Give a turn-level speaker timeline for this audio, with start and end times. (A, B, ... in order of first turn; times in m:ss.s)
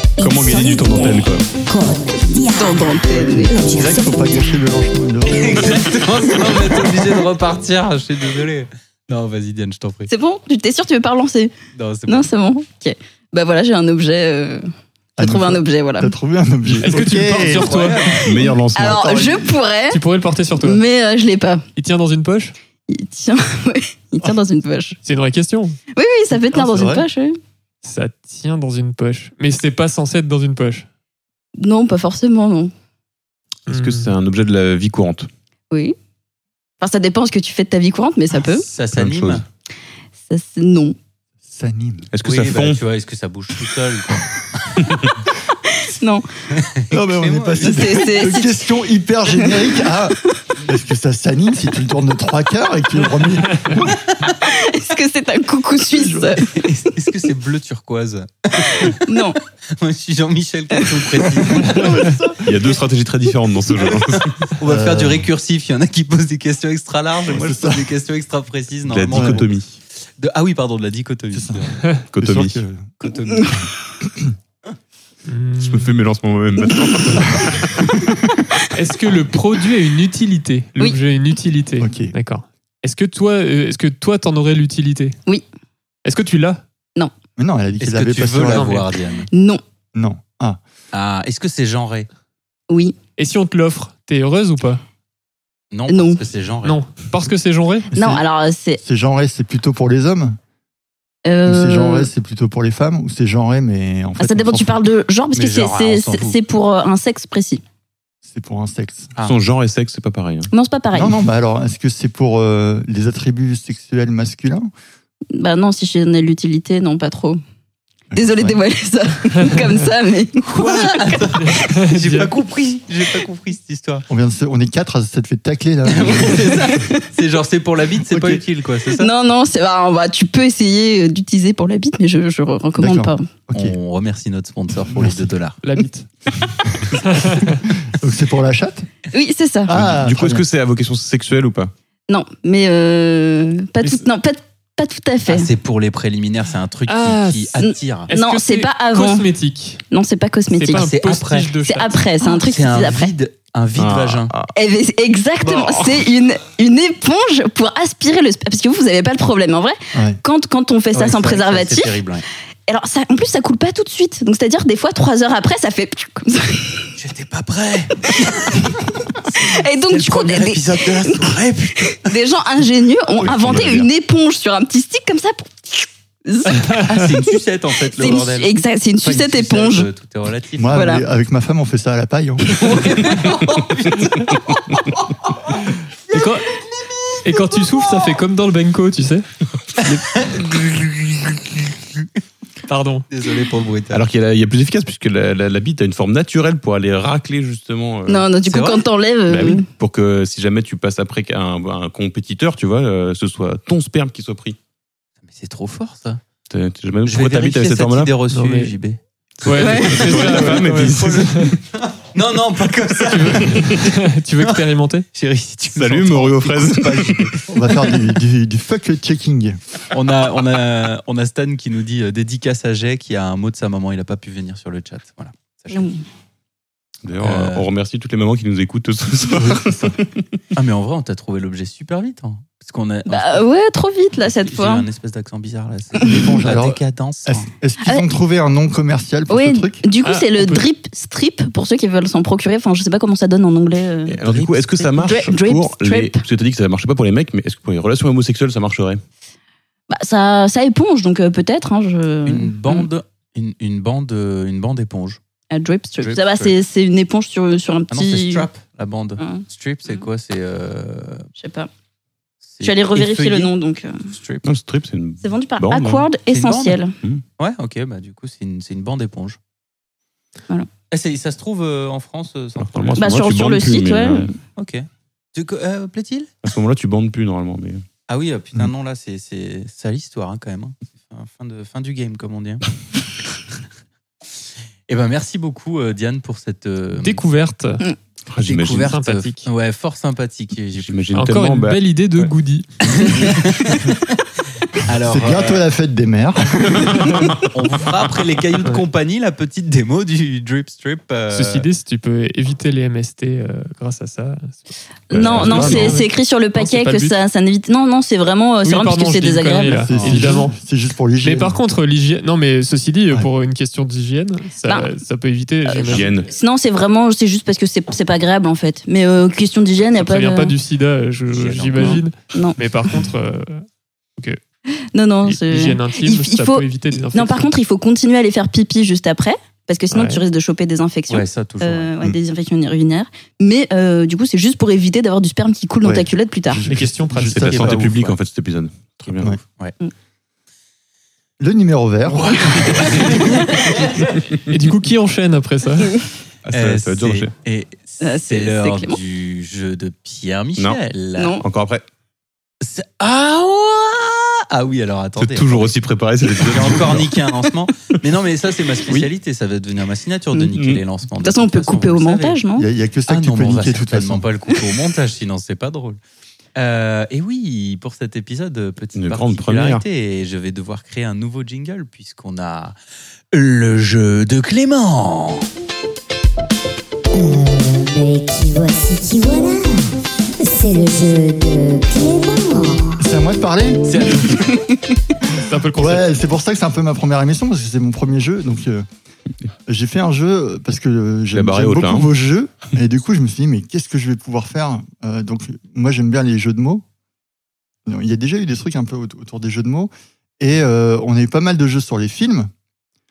0:00.2-0:04.6 A
0:00.2-0:01.5 B
0:02.6-0:03.6 C
0:03.2-0:06.2 D
0:05.3-0:10.1 E
0:10.1-0:11.5 C
0:11.7-0:12.3 E
0:12.1-0:16.1 C
0:15.2-0:18.2 D
0:16.8-0:18.2 F
0:17.5-0:18.2 E
0:18.2-0:19.2 B
0:18.3-0:20.0 C
0:18.8-0:19.6 D
0:19.9-0:20.8 F
0:20.6-0:21.6 C
0:21.8-0:22.6 F
0:22.9-0:25.0 C
0:25.0-0:25.8 F
0:26.0-0:27.4 C
0:26.5-0:27.1 D
0:27.8-0:30.9 F
0:31.6-0:32.7 C
0:33.7-0:34.1 F
0:33.7-0:35.3 B
0:35.7-0:36.0 C
0:36.8-0:38.6 C
0:38.5-0:39.4 E
0:38.9-0:39.4 B
0:40.3-0:41.0 C
0:41.4-0:42.1 D
0:42.1-0:42.8 B
0:42.2-0:44.8 E
0:44.8-0:45.1 B
0:45.7-0:46.3 C
0:46.5-0:48.1 E
0:46.9-0:54.0 D
0:47.6-0:48.6 C
0:49.4-0:49.7 C
0:54.3-0:56.5 C
0:55.9-0:56.3 D
0:56.4-0:59.2 E
0:58.8-0:59.4 C
0:59.7-1:02.2 E
1:01.6-1:02.5 D
1:02.4-1:04.5 B
1:03.8-1:09.5 E
1:04.6-1:05.3 D
1:07.3-1:07.9 D
1:08.9-1:09.8 B
1:09.1-1:09.5 D
1:10.2-1:11.8 E
1:11.3-1:12.9 D
1:12.1-1:12.6 B
1:13.0-1:13.6 E
1:14.1-1:14.3 D
1:15.3-1:15.9 F
1:15.6-1:17.9 B
1:18.7-1:25.2 F
1:21.8-1:22.1 D
1:26.0-1:26.6 F
1:27.4-1:28.8 D
1:27.8-1:29.3 E
1:28.5-1:28.8 F
1:29.3-1:29.6 C
1:29.9-1:30.6 D
1:30.9-1:32.1 E
1:32.7-1:33.0 C
1:33.2-1:34.8 F
1:35.7-1:36.8 E
1:35.9-1:36.2 C
1:36.6-1:37.9 F
1:37.9-1:38.2 D
1:37.9-1:38.8 C
1:38.8-1:40.4 D
1:41.2-1:42.1 C
1:41.4-1:44.8 D
1:44.2-1:47.6 C
1:45.3-1:46.4 E
1:48.2-1:49.1 D
1:49.2-1:50.5 B
1:50.5-1:51.2 C
1:50.9-1:54.7 D
1:55.4-1:57.4 C
1:58.1-1:58.6 D
1:58.1-2:01.3 C
2:00.4-2:04.1 E
2:01.4-2:02.3 F
2:04.1-2:06.6 D
2:05.9-2:09.1 E
2:08.1-2:08.4 D
2:09.0-2:13.3 C
2:12.8-2:13.8 D
2:13.5-2:15.6 E
2:14.9-2:15.2 D
2:15.6-2:16.1 F
2:17.0-2:17.6 F
2:17.8-2:18.9 D
2:19.1-2:19.8 C
2:19.7-2:20.4 D
2:19.7-2:21.7 B
2:22.1-2:25.5 C
2:25.3-2:28.1 E
2:26.9-2:29.8 F
2:28.1-2:29.3 C
2:29.9-2:30.9 C
2:30.5-2:32.0 F
2:30.7-2:31.5 E
2:31.6-2:33.1 C
2:32.2-2:34.3 E
2:33.8-2:34.5 B
2:34.6-2:42.0 C
2:35.4-2:36.1 B
2:39.9-2:40.2 D
2:40.9-2:42.2 E
2:42.7-2:46.9 C
2:47.0-2:52.2 E
2:49.4-2:51.3 C
2:52.0-2:57.2 C
2:53.2-2:53.9 B
2:56.7-3:00.8 E
2:57.9-2:59.9 C
3:00.6-3:02.6 D
3:00.7-3:01.0 C
3:02.5-3:05.5 E
3:06.1-3:06.6 F
3:07.2-3:09.3 F
3:09.8-3:11.6 E
3:12.7-3:13.0 F
3:13.1-3:14.0 E
3:13.9-3:18.3 B
3:18.1-3:19.7 C
3:18.4-3:18.9 E
3:19.3-3:24.6 B
3:25.3-3:26.2 E
3:26.5-3:28.1 B
3:27.0-3:29.0 E
3:28.3-3:28.7 F
3:29.4-3:31.6 B
3:29.4-3:31.5 F
3:29.6-3:30.1 C
3:30.0-3:37.9 E
3:33.1-3:35.1 F
3:35.7-3:37.3 B
3:37.5-3:39.6 D
3:39.9-3:46.0 E
3:45.7-3:46.0 C
3:47.0-3:49.9 B
3:47.2-3:47.7 E
3:49.3-3:50.0 D
3:50.6-3:53.5 E
3:53.1-3:54.9 C
3:54.2-3:57.5 E
3:56.0-3:59.8 D
3:59.3-4:04.2 C
4:00.0-4:00.7 F
4:04.1-4:09.0 B
4:04.2-4:05.0 E
4:05.0-4:06.2 C
4:09.9-4:12.9 C
4:12.3-4:15.2 E
4:15.5-4:18.5 C
4:16.0-4:16.5 E
4:17.9-4:21.3 E
4:19.2-4:19.4 C
4:21.4-4:21.7 C
4:22.5-4:23.5 E
4:22.6-4:24.0 C
4:24.1-4:24.5 E
4:24.4-4:26.1 B
4:25.2-4:27.0 C
4:26.3-4:26.8 E
4:27.4-4:29.4 E
4:30.9-4:33.2 E
4:32.6-4:34.4 B
4:33.0-4:34.3 C
4:34.6-4:36.3 E
4:36.4-4:37.8 B
4:38.1-4:42.6 E
4:44.9-4:47.2 E
4:47.0-4:47.8 F
4:48.3-4:48.9 B
4:48.4-4:51.0 E
4:48.9-4:49.5 F
4:50.8-4:52.3 B
4:51.2-4:52.9 F
4:52.8-4:54.0 E
4:54.8-4:55.7 E
4:55.0-4:56.9 D
4:57.4-5:01.7 E
5:01.3-5:07.2 F
5:05.1-5:06.0 B
5:05.1-5:09.9 C
5:08.6-5:10.6 F
5:09.8-5:11.6 D
5:09.9-5:10.2 E
5:11.2-5:16.2 F
5:15.7-5:20.5 C
5:15.9-5:16.3 B
5:19.9-5:23.6 F
5:21.3-5:22.0 E
5:21.8-5:22.6 C
5:24.9-5:36.6 C
5:25.2-5:27.5 F
5:29.9-5:30.2 F
5:31.1-5:31.9 E
5:35.8-5:37.9 D
5:36.7-5:37.9 F
5:37.3-5:39.4 B
5:37.9-5:38.2 E
5:39.0-5:39.8 E
5:41.4-5:43.0 D
5:42.1-5:43.8 E
5:42.9-5:43.8 C
5:44.5-5:46.0 F
5:46.5-5:47.3 B
5:46.5-5:51.4 E
5:48.0-5:49.0 C
5:51.2-5:51.4 C
5:51.4-5:51.8 B
5:52.6-6:02.4 E
5:55.2-5:57.2 B
6:00.6-6:00.8 B
6:01.2-6:02.7 C
6:02.6-6:04.2 D
6:03.1-6:06.0 E
6:06.6-6:12.8 E
6:09.0-6:09.8 B
6:13.3-6:15.4 E
6:17.1-6:23.0 A
6:23.0-6:24.4 D
6:23.9-6:24.5 E
6:25.3-6:28.9 D
6:25.4-6:26.1 F
6:29.7-6:36.8 D
6:31.3-6:32.1 B
6:37.9-6:42.5 D